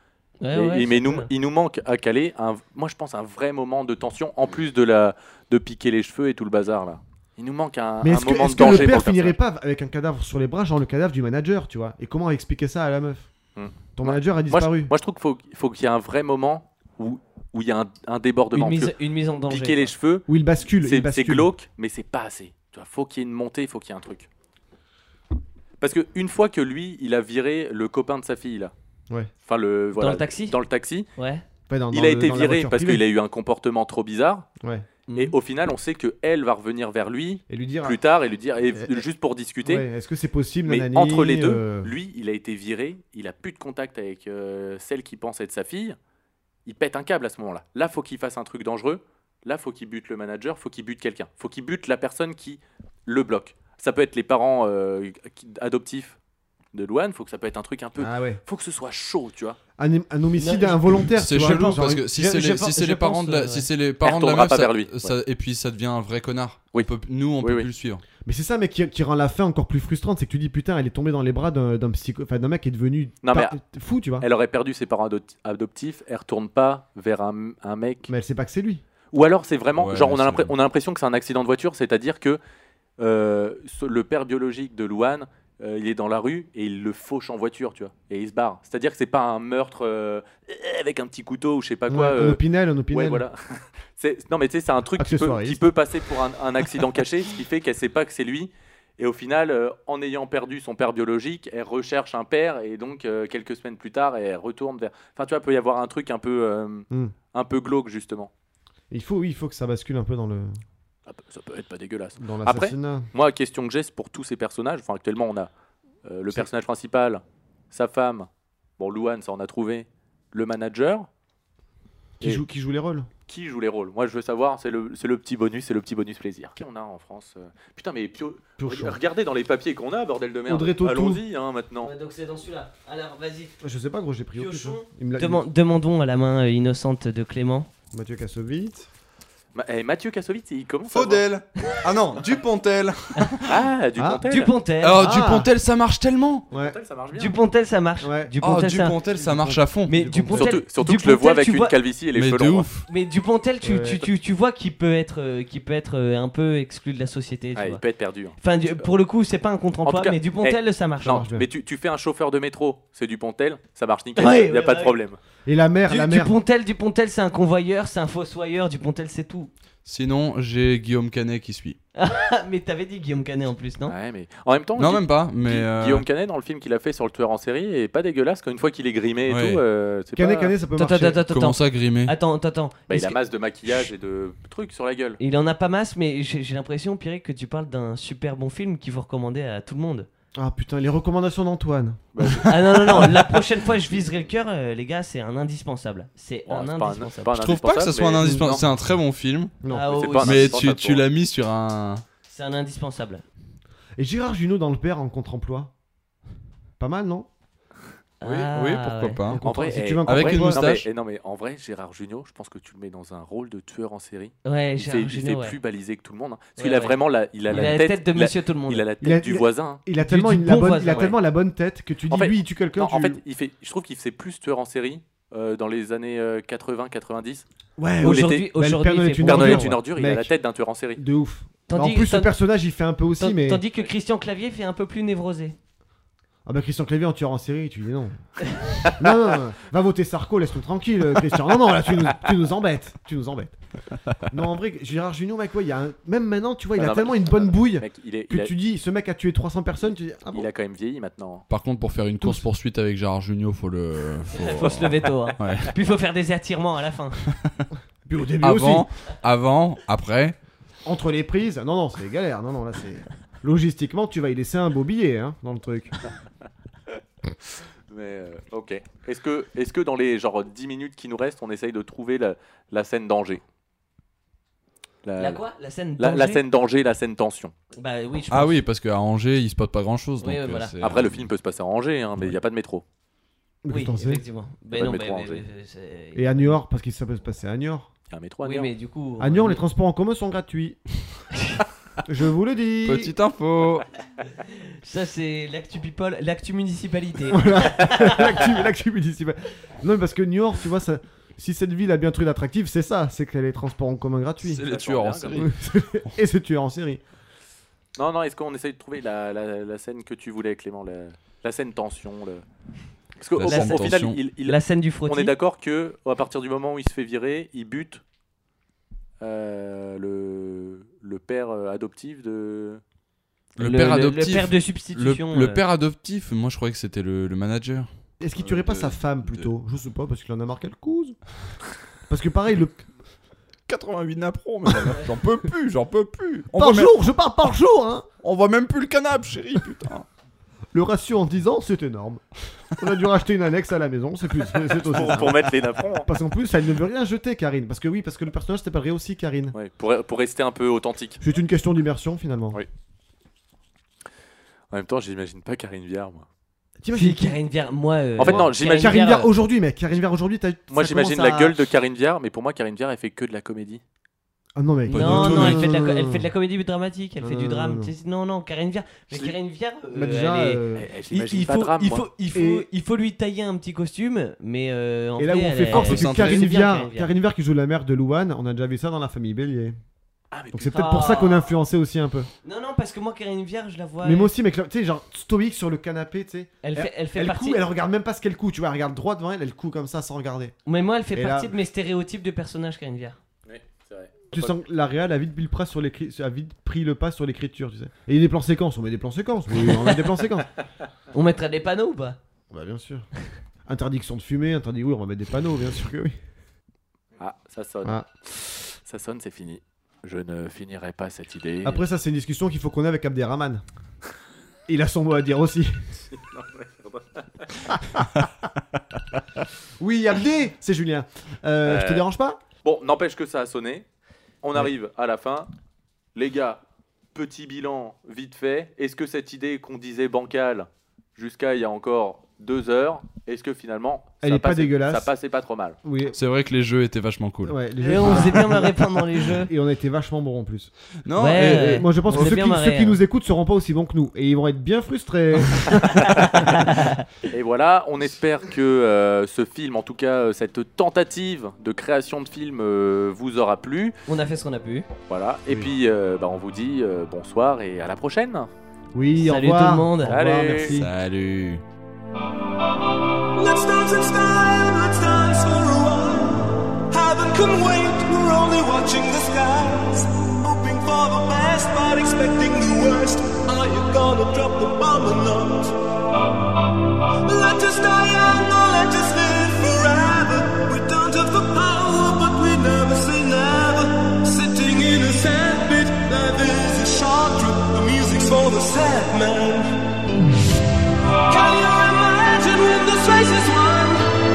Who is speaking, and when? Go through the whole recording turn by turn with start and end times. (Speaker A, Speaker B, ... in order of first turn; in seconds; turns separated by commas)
Speaker A: 0.4-1.3, Speaker B: 0.5-9.4, Speaker C: 8.0-13.3, Speaker B: 13.6-18.9, Speaker C: 13.9-14.9, Speaker A: 18.5-19.9, Speaker B: 19.5-20.3, Speaker C: 20.3-21.5, Speaker B: 20.8-24.3, Speaker B: 25.8-28.7, Speaker B: 29.4-31.1, Speaker A: 30.0-30.6, Speaker A: 31.2-31.4, Speaker C: 31.7-33.0, Speaker B: 31.9-34.5, Speaker C: 34.6-34.9, Speaker A: 35.1-35.3, Speaker B: 35.1-39.9, Speaker C: 37.5-38.0, Speaker C: 38.7-39.0, Speaker C: 39.6-41.9, Speaker B: 40.7-46.0, Speaker B: 46.7-56.2, Speaker B: 56.7-59.6, Speaker C: 58.0-58.4, Speaker C: 59.8-62.1, Speaker A: 60.4-63.7, Speaker D: 61.2-68.0, Speaker B: 64.0-65.2, Speaker B: 66.7-67.7, Speaker C: 68.2-74.3, Speaker B: 73.2-73.6, Speaker B: 74.2-78.1, Speaker C: 78.1-78.8, Speaker B: 79.1-82.4, Speaker D: 79.8-80.5, Speaker B: 83.0-108.3, Speaker C: 91.9-93.2, Speaker C: 95.0-95.7, Speaker C: 108.9-110.6, Speaker B: 111.1-115.5, Speaker C: 112.2-113.1, Speaker B: 116.0-118.3, Speaker B: 118.8-121.1, Speaker C: 122.2-123.1, Speaker B: 123.3-131.9, Speaker C: 128.6-129.0, Speaker C: 130.5-131.2, Speaker A: 131.8-133.6, Speaker C: 133.6-135.4, Speaker A: 134.3-137.7, Speaker C: 137.9-138.9, Speaker B: 139.6-141.2, Speaker D: 140.9-143.6, Speaker B: 143.5-144.5, Speaker C: 143.9-144.2, Speaker A: 144.3-145.0, Speaker D: 144.8-146.4, Speaker C: 144.9-145.5, Speaker C: 146.5-146.8, Speaker B: 146.5-147.3, Speaker A: 147.1-148.9, Speaker C: 148.0-148.3, Speaker D: 148.4-150.3, Speaker C: 149.1-150.6, Speaker A: 149.9-151.8, Speaker B: 150.3-152.7, Speaker D: 152.2-152.9, Speaker A: 152.9-157.8, Speaker C: 153.6-154.1, Speaker B: 157.6-158.8, Speaker A: 158.4-161.3, Speaker B: 159.8-165.2, Speaker C: 161.1-161.4, Speaker A: 164.2-164.9, Speaker C: 165.4-166.4, Speaker A: 165.9-169.5, Speaker D: 169.8-171.8, Speaker A: 171.9-173.9, Speaker B: 173.9-180.5, Speaker D: 174.8-176.1, Speaker D: 179.3-179.6, Speaker C: 180.2-181.2, Speaker A: 180.8-183.2, Speaker D: 181.3-182.2, Speaker B: 182.9-185.2, Speaker A: 185.2-190.1, Speaker C: 190.3-192.0, Speaker B: 192.1-193.1, Speaker A: 192.3-197.3, Speaker B: 196.5-198.6, Speaker D: 197.4-199.6, Speaker C: 199.6-200.1, Speaker A: 199.7-200.6, Speaker B: 199.9-201.1, Speaker D: 200.2-202.0, Speaker A: 202.3-203.2, Speaker C: 204.0-205.7, Speaker C: 206.8-207.3, Speaker A: 208.2-209.2, Speaker D: 208.2-209.4, Speaker C: 209.3-210.6, Speaker B: 209.4-219.8, Speaker D: 210.0-210.8, Speaker A: 214.4-215.6, Speaker A: 216.6-218.9, Speaker C: 219.0-223.2, Speaker A: 220.0-221.2, Speaker B: 220.9-221.1, Speaker B: 222.1-227.4, Speaker C: 227.8-230.3, Speaker B: 228.0-228.5, Speaker A: 228.0-229.7, Speaker B: 229.2-231.0, Speaker C: 230.9-233.6, Speaker A: 231.7-232.3, Speaker A: 233.2-235.6, Speaker C: 236.4-238.2, Speaker C: 238.9-243.6, Speaker C: 244.3-250.5, Speaker B: 246.8-248.5, Speaker B: 250.3-251.4, Speaker D: 251.5-255.7, Speaker C: 252.2-252.4, Speaker A: 254.3-257.2, Speaker C: 258.1-258.9, Speaker D: 258.4-260.4, Speaker C: 260.9-265.9, Speaker B: 267.9-273.4, Speaker B: 275.0-275.4, Speaker A: 275.2-276.4, Speaker B: 276.0-277.5, Speaker A: 277.8-278.6, Speaker D: 278.3-281.3, Speaker A: 280.2-280.7, Speaker B: 280.8-282.8, Speaker C: 283.6-284.2, Speaker A: 283.7-286.5, Speaker B: 284.8-285.4, Speaker C: 286.1-287.9, Speaker B: 288.1-288.7, Speaker A: 288.4-289.6, Speaker C: 289.2-290.8, Speaker C: 292.1-293.1, Speaker D: 292.9-293.9, Speaker A: 294.8-298.3, Speaker C: 297.3-304.6, Speaker D: 304.4-305.6, Speaker B: 304.7-305.5, Speaker C: 305.3-307.0, Speaker B: 307.9-312.4, Speaker B: 313.2-318.0, Speaker D: 313.4-314.2, Speaker A: 313.4-313.9, Speaker A: 314.4-315.3, Speaker B: 319.2-322.8, Speaker D: 323.6-329.5, Speaker A: 323.6-325.6, Speaker C: 328.2-331.2, Speaker C: 332.1-332.9, Speaker D: 333.7-336.9, Speaker C: 336.5-338.1, Speaker D: 338.2-340.1, Speaker C: 340.7-349.6, Speaker B: 344.9-346.1, Speaker B: 349.5-351.2, Speaker C: 351.2-352.6, Speaker B: 354.7-356.3, Speaker C: 356.8-357.4, Speaker A: 356.9-359.3, Speaker B: 358.2-359.0, Speaker C: 358.2-361.6, Speaker B: 360.7-363.8, Speaker C: 364.6-366.3, Speaker A: 364.9-370.6, Speaker D: 364.9-365.7, Speaker C: 367.2-367.9, Speaker C: 369.9-370.9, Speaker B: 370.8-372.1, Speaker A: 371.1-377.1, Speaker C: 372.3-372.7, Speaker C: 375.2-379.8, Speaker D: 375.7-376.5, Speaker B: 380.3-381.0, Speaker C: 380.5-382.3, Speaker A: 380.7-381.5, Speaker A: 382.4-384.3, Speaker C: 384.0-390.5, Speaker A: 386.6-387.6, Speaker A: 390.7-393.2, Speaker C: 391.1-391.6, Speaker B: 393.5-394.6, Speaker C: 394.3-400.5, Speaker A: 399.6-400.0, Speaker A: 401.1-402.2, Speaker C: 402.5-403.1, Speaker C: 403.7-406.2, Speaker B: 407.2-411.8, Speaker C: 411.6-413.6, Speaker C: 414.7-415.9, Speaker B: 416.1-417.6, Speaker C: 417.7-418.1, Speaker C: 419.8-422.4, Speaker B: 421.7-422.0, Speaker B: 422.6-423.9, Speaker B: 424.4-425.5, Speaker B: 426.1-426.6, Speaker B: 427.1-435.8, Speaker C: 434.2-435.1, Speaker C: 435.8-436.2, Speaker D: 436.1-437.6, Speaker C: 437.4-438.8, Speaker A: 437.8-439.5, Speaker D: 438.1-438.3, Speaker C: 439.4-440.7, Speaker D: 441.1-442.4, Speaker A: 441.2-443.0, Speaker C: 441.5-446.1, Speaker A: 446.1-447.0, Speaker B: 447.3-453.9, Speaker A: 454.1-454.9, Speaker B: 455.1-458.5, Speaker C: 458.9-460.9, Speaker A: 459.2-460.2, Speaker B: 460.1-460.8, Speaker D: 460.7-461.6, Speaker E: 463.4-475.8, Speaker E: 477.2-489.9, Speaker E: 491.3-494.0